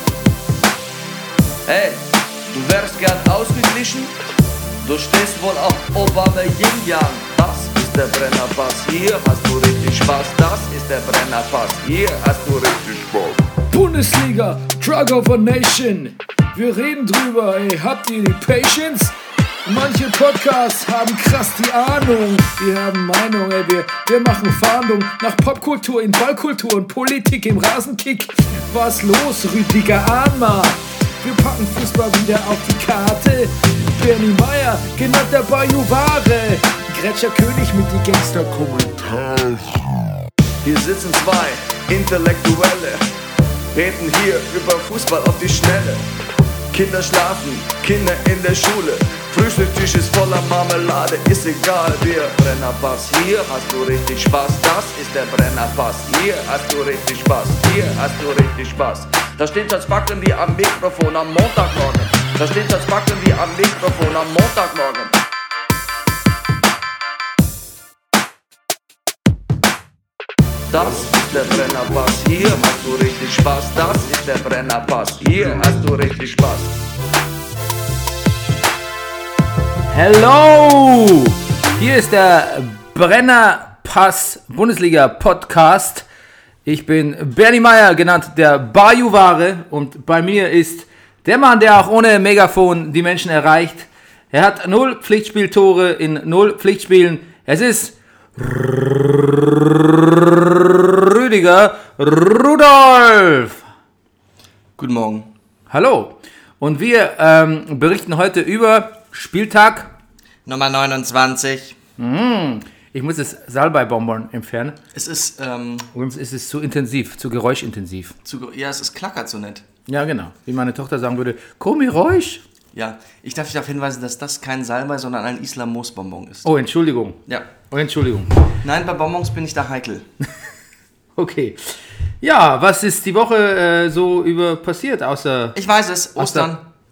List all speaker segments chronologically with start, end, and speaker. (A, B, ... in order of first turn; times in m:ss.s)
0:01.7-0:04.1 A
0:04.8-0:13.4 A
0:13.7-0:19.1 B
0:19.6-0:39.5 B
0:40.6-0:43.1 A
0:43.7-0:46.0 A
0:46.7-1:05.1 A
1:10.7-1:16.8 A
1:19.9-1:26.0 C
1:26.6-1:43.6 C
1:44.8-1:45.3 D
1:45.7-1:49.9 C
1:50.4-1:51.8 D
1:52.0-1:54.8 C
1:54.9-1:55.9 D
1:55.9-1:58.1 C
1:58.2-1:59.6 D
1:59.9-2:02.4 C
2:02.7-2:06.5 D
2:06.4-2:08.3 C
2:08.6-2:10.1 D
2:11.2-2:15.6 C
2:15.5-2:16.6 D
2:16.2-2:16.5 C